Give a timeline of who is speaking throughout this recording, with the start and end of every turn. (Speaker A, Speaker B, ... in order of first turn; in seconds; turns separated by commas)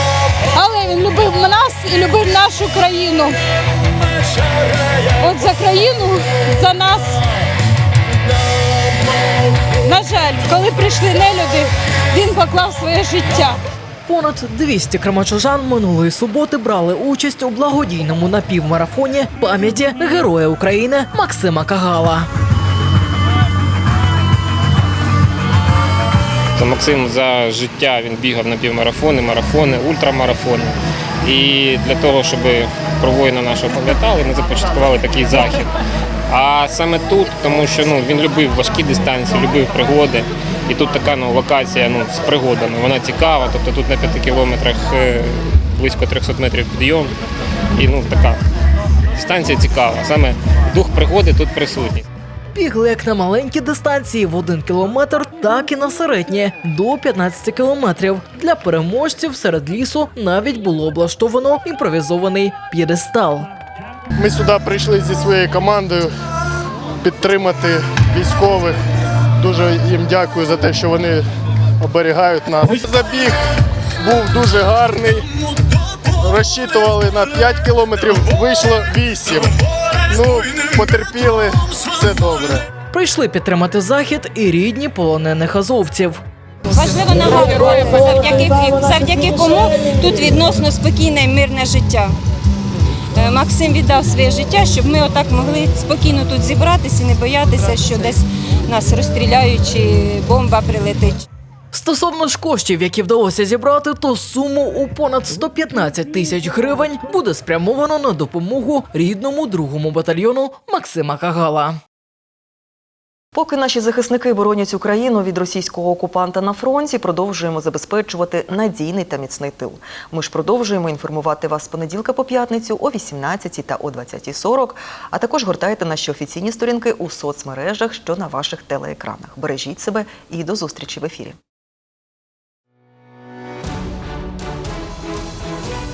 Speaker A: 0.5-3.3, Speaker A: 5.2-7.2, Speaker A: 9.8-13.6, Speaker B: 14.1-22.3, Speaker C: 26.6-35.7, Speaker C: 36.3-47.1, Speaker C: 47.8-48.4, Speaker C: 49.1-52.0, Speaker B: 52.5-63.5, Speaker D: 64.2-66.1, Speaker D: 67.0-68.8, Speaker D: 69.4-71.2, Speaker D: 71.8-73.4, Speaker D: 74.0-75.3, Speaker D: 76.2-79.5, Speaker D: 80.1-82.7, Speaker B: 82.9-86.2, Speaker E: 86.7-92.1, Speaker E: 93.2-101.2, Speaker B: 101.7-111.8, Speaker F: 113.3-131.3